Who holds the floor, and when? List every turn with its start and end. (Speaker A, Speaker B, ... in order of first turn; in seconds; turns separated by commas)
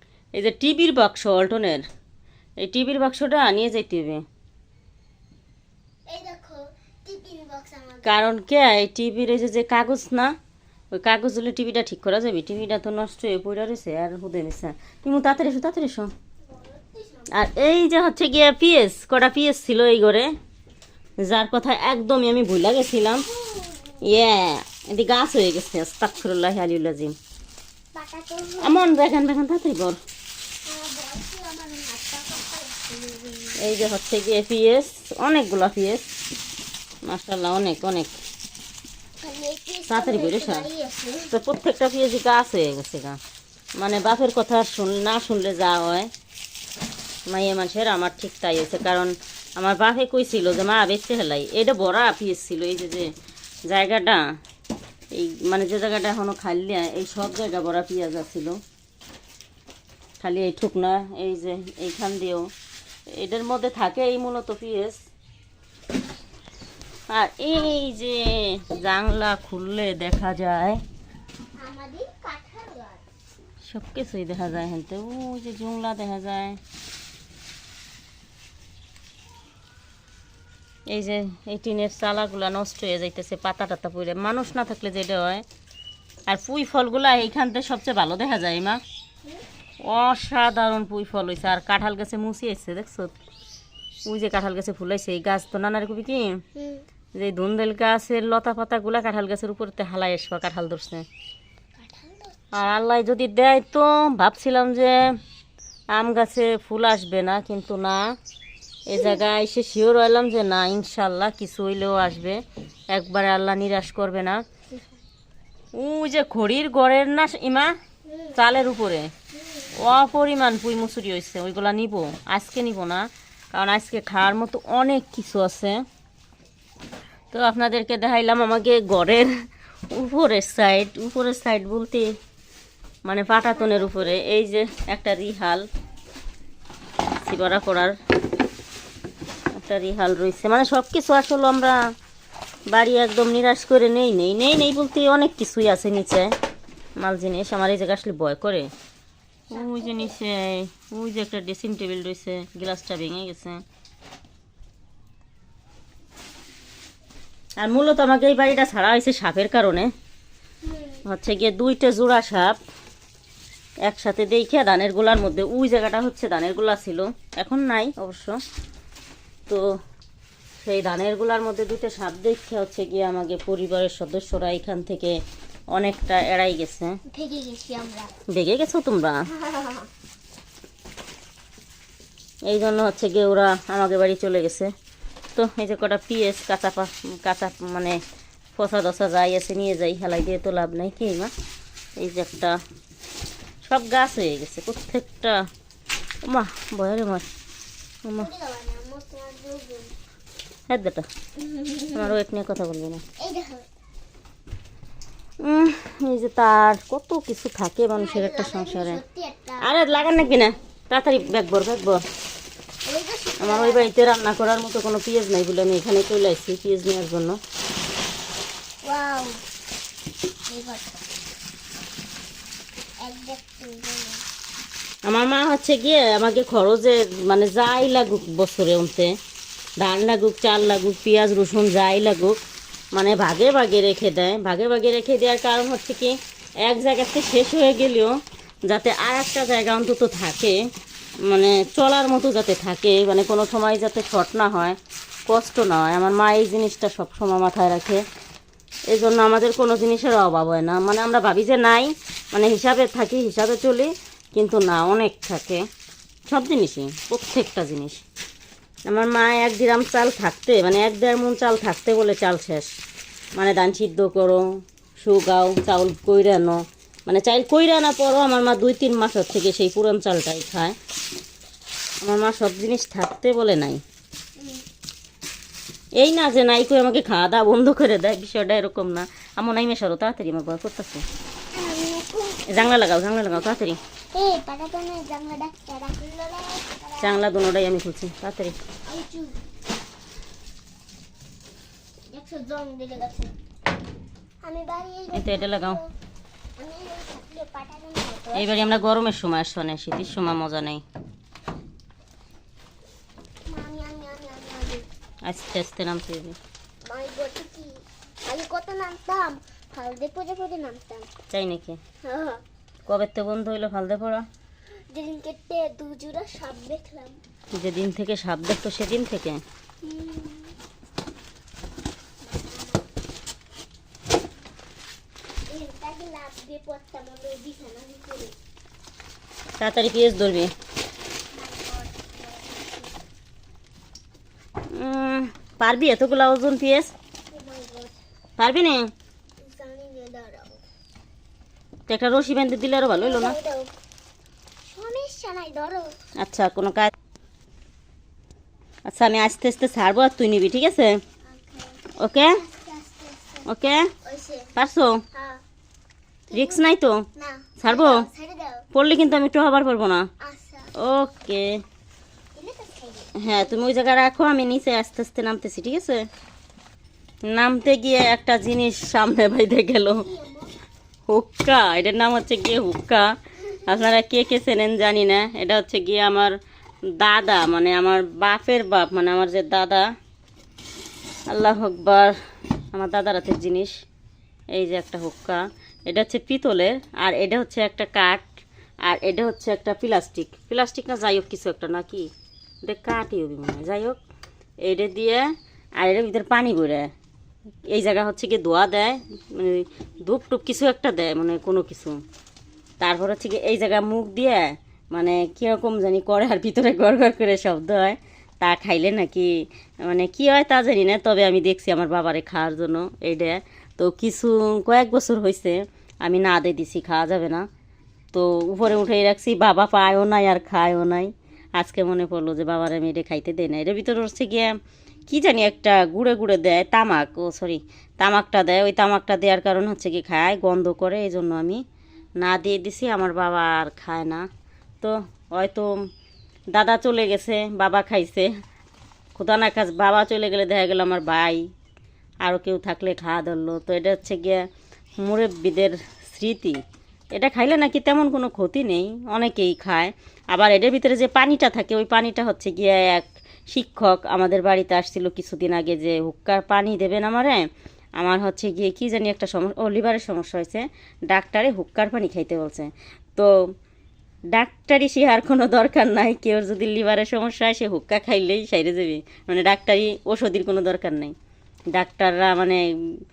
Speaker A: 0.3-1.9, Speaker A: 2.6-4.2, Speaker B: 6.1-8.3, Speaker A: 8.0-10.3, Speaker A: 10.9-16.1, Speaker B: 16.4-17.3, Speaker A: 17.3-20.3, Speaker A: 21.2-23.2, Speaker B: 23.1-24.0, Speaker A: 24.0-27.1, Speaker B: 27.9-28.9, Speaker A: 28.6-30.0, Speaker B: 30.6-33.8, Speaker A: 33.6-36.1, Speaker A: 37.1-38.1, Speaker B: 39.2-41.3, Speaker A: 39.9-40.7, Speaker A: 41.3-43.2, Speaker A: 43.8-46.1, Speaker A: 47.3-53.1, Speaker A: 53.7-54.4, Speaker A: 55.1-58.6, Speaker A: 60.2-62.5, Speaker A: 63.1-65.0, Speaker A: 67.1-70.8, Speaker B: 71.6-73.0, Speaker A: 73.6-76.6, Speaker A: 80.9-85.5, Speaker A: 86.3-88.8, Speaker A: 89.8-93.1, Speaker A: 94.1-96.4, Speaker B: 96.5-96.8, Speaker A: 97.2-101.1, Speaker B: 101.8-102.5, Speaker A: 102.5-105.2, Speaker A: 105.9-108.2, Speaker A: 108.9-114.4, Speaker B: 109.0-109.2, Speaker A: 115.7-117.8, Speaker B: 118.0-118.4, Speaker A: 118.4-119.1, Speaker B: 119.3-119.7, Speaker A: 119.7-125.8, Speaker A: 127.3-129.3, Speaker A: 129.9-132.1, Speaker A: 133.1-135.7, Speaker B: 133.5-134.0, Speaker A: 137.2-138.0, Speaker A: 139.6-141.9, Speaker A: 142.7-146.3, Speaker A: 147.0-148.7, Speaker A: 149.5-153.6, Speaker B: 149.5-150.2, Speaker A: 157.6-159.9, Speaker B: 160.6-161.0, Speaker A: 161.1-162.6, Speaker A: 163.8-168.4, Speaker A: 170.6-175.2, Speaker A: 175.7-177.0, Speaker B: 177.1-178.1, Speaker A: 178.3-179.3, Speaker B: 179.3-179.9, Speaker A: 182.5-184.7, Speaker A: 185.4-188.0, Speaker A: 188.6-191.3, Speaker A: 192.0-192.6, Speaker A: 193.6-195.5, Speaker A: 196.2-197.3, Speaker B: 198.2-199.9, Speaker A: 200.7-201.1, Speaker B: 201.4-202.2, Speaker A: 201.9-203.0, Speaker B: 203.2-203.7, Speaker A: 205.4-209.0, Speaker B: 207.9-210.5, Speaker A: 209.6-212.0, Speaker B: 212.8-213.9, Speaker A: 213.4-217.4, Speaker B: 218.8-219.4, Speaker B: 220.5-220.9, Speaker B: 223.0-224.2, Speaker A: 225.1-229.2, Speaker A: 229.8-232.4, Speaker A: 232.9-240.6, Speaker A: 241.2-248.1, Speaker A: 248.9-255.7, Speaker A: 256.3-258.0, Speaker A: 258.9-262.7, Speaker A: 263.4-264.5, Speaker A: 265.0-270.8, Speaker A: 272.0-273.8, Speaker B: 274.4-274.6, Speaker A: 276.0-281.1, Speaker B: 281.5-282.8, Speaker A: 282.5-283.8, Speaker B: 284.1-287.2, Speaker A: 287.0-288.6, Speaker B: 288.9-289.4, Speaker B: 292.1-293.3, Speaker B: 294.4-295.9, Speaker A: 295.1-295.8, Speaker B: 296.6-298.8, Speaker A: 298.3-300.8, Speaker B: 303.5-304.9, Speaker A: 305.3-306.4, Speaker B: 306.9-311.1, Speaker A: 311.3-311.8, Speaker B: 312.0-312.4, Speaker A: 312.9-314.3, Speaker B: 314.9-317.2, Speaker A: 317.6-319.4, Speaker B: 319.8-320.6, Speaker B: 322.2-322.9, Speaker B: 325.5-328.3, Speaker A: 329.6-330.5, Speaker B: 331.3-333.0, Speaker A: 334.7-336.9, Speaker B: 337.3-338.0, Speaker A: 338.4-338.9, Speaker B: 339.4-340.6, Speaker A: 341.9-343.4, Speaker B: 343.0-343.7, Speaker B: 344.7-345.9, Speaker A: 346.2-346.9, Speaker A: 348.9-351.0, Speaker B: 351.3-353.5, Speaker A: 352.0-352.4, Speaker A: 353.5-353.9, Speaker B: 354.0-354.5, Speaker A: 354.6-355.0, Speaker B: 355.1-355.4, Speaker B: 356.3-356.6, Speaker A: 356.3-357.1, Speaker B: 357.2-358.7, Speaker A: 357.6-358.1, Speaker A: 358.7-360.1, Speaker B: 360.2-360.7, Speaker A: 360.8-361.6, Speaker B: 362.4-363.3, Speaker A: 363.2-366.1, Speaker A: 367.3-370.1, Speaker B: 370.0-370.5, Speaker A: 371.1-373.1, Speaker B: 373.4-373.9, Speaker A: 373.7-376.4, Speaker A: 377.0-379.9, Speaker A: 381.3-382.2, Speaker A: 382.7-383.8, Speaker A: 384.5-388.3, Speaker A: 388.8-392.1, Speaker A: 392.6-394.0, Speaker A: 394.6-396.9, Speaker A: 397.7-402.0, Speaker A: 402.8-417.5, Speaker A: 418.1-431.6, Speaker A: 432.2-434.3, Speaker A: 434.8-435.7, Speaker A: 436.5-438.3, Speaker A: 439.2-441.5, Speaker A: 442.2-444.5, Speaker A: 445.0-446.6, Speaker A: 447.1-463.5, Speaker A: 464.3-471.1, Speaker A: 471.7-473.0